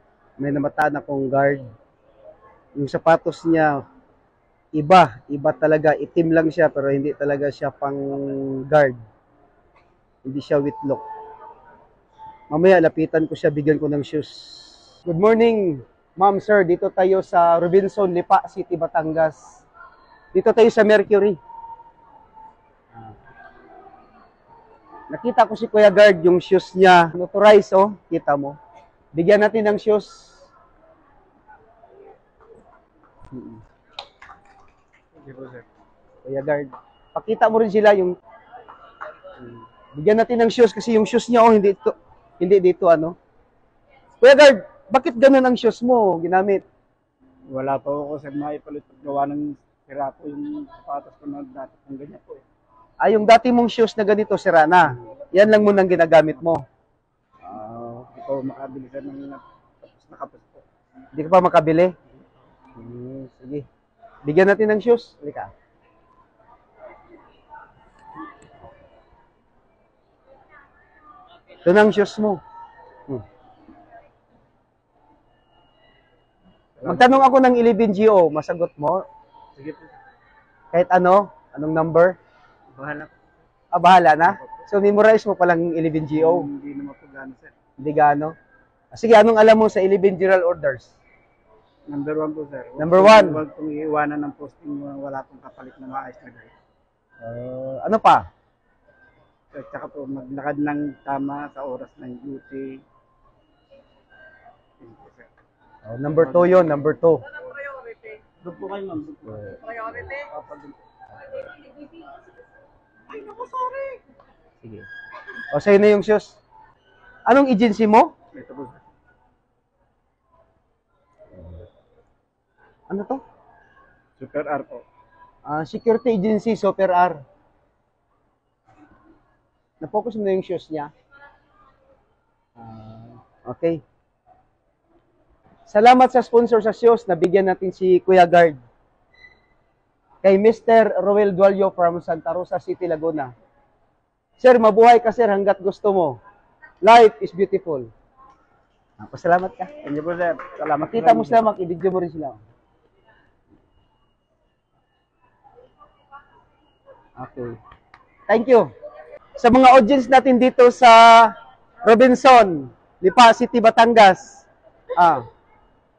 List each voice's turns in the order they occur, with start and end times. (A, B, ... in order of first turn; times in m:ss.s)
0:00.4-0:01.7 A
0:02.8-0:03.8 A
0:04.7-0:09.0 A
0:10.2-0:11.0 A
0:12.5-0:19.6 A
0:20.3-0:21.4 A
0:25.1-0:28.6 A
0:29.1-0:30.4 A
0:33.3-0:33.6 A
0:35.1-0:35.6 B
0:36.2-0:38.2 A
0:39.4-0:43.2 A
0:44.2-0:46.6 A
0:47.5-0:52.4 B
0:53.0-0:56.6 A
0:57.4-0:58.1 A
0:58.1-1:00.6 B
1:01.1-1:01.9 A
1:02.7-1:03.6 A
1:04.2-1:05.5 A
1:11.6-1:12.4 A
1:16.8-1:17.3 B
1:16.8-1:19.0 A
1:19.6-1:20.0 B
1:20.7-1:22.2 A
1:22.7-1:23.3 B
1:23.7-1:26.5 A
1:24.2-1:24.6 B
1:26.1-1:27.5 B
1:27.8-1:28.3 A
1:28.9-1:30.9 A
1:31.9-1:36.5 B
1:32.8-1:33.4 A
1:37.2-1:38.2 A
1:39.5-1:42.8 B
1:44.8-1:45.3 B
1:45.8-1:47.2 A
1:46.1-1:47.0 B
1:47.7-1:50.8 B
1:53.1-1:54.0 B
1:54.6-1:54.9 A
1:55.5-1:56.4 A
1:57.2-1:58.1 A
1:58.3-1:58.8 B
2:02.9-2:03.2 A
2:04.2-2:04.8 B
2:05.4-2:07.2 A
2:09.8-2:10.9 A
2:12.8-2:13.8 A
2:15.7-2:18.6 A
2:20.2-2:23.3 A
2:24.4-2:26.2 A
2:26.8-2:27.9 A
2:29.0-2:29.7 A
2:29.8-2:31.4 B
2:30.8-2:32.4 A
2:37.2-2:37.6 A
2:38.3-2:38.7 A
2:39.4-2:45.2 A